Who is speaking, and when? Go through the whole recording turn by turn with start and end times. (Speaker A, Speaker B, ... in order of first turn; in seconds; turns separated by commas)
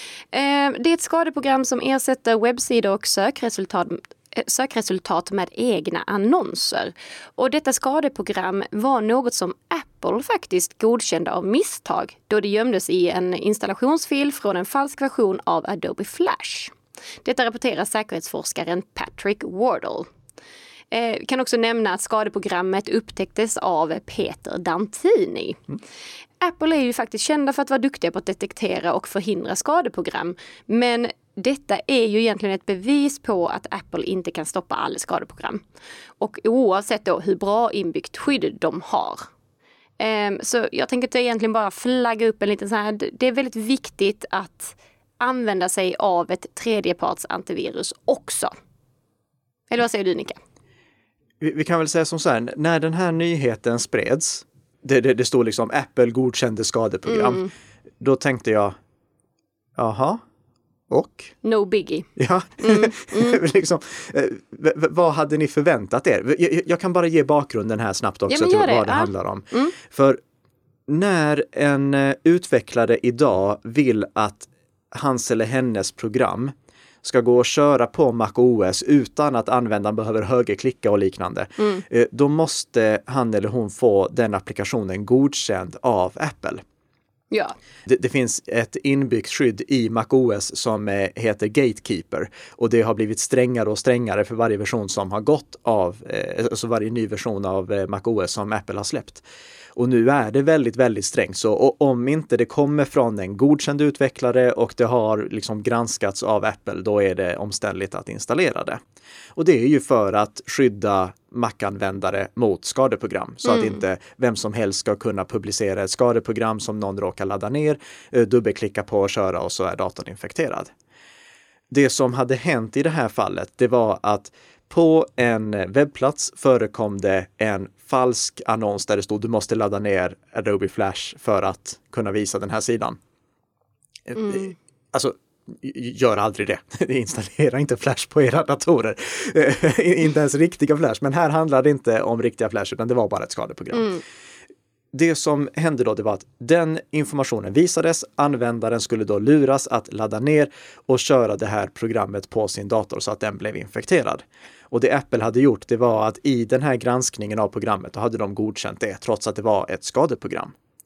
Speaker A: 0.3-20.1, Speaker A: 20.9-25.6, Speaker A: 26.4-35.6, Speaker A: 36.2-39.3, Speaker A: 40.0-48.5, Speaker A: 49.7-50.4, Speaker B: 51.4-57.5, Speaker A: 57.1-57.5, Speaker B: 58.0-58.7, Speaker B: 59.8-60.2, Speaker B: 60.9-61.3, Speaker A: 61.4-62.1, Speaker B: 62.1-70.2, Speaker A: 62.6-63.4, Speaker A: 68.3-69.7, Speaker B: 70.9-86.6, Speaker B: 87.8-99.2, Speaker B: 99.8-108.8, Speaker B: 109.3-120.7, Speaker A: 113.4-113.8, Speaker B: 121.7-133.0, Speaker B: 134.1-144.0, Speaker A: 143.7-144.0, Speaker B: 144.9-160.5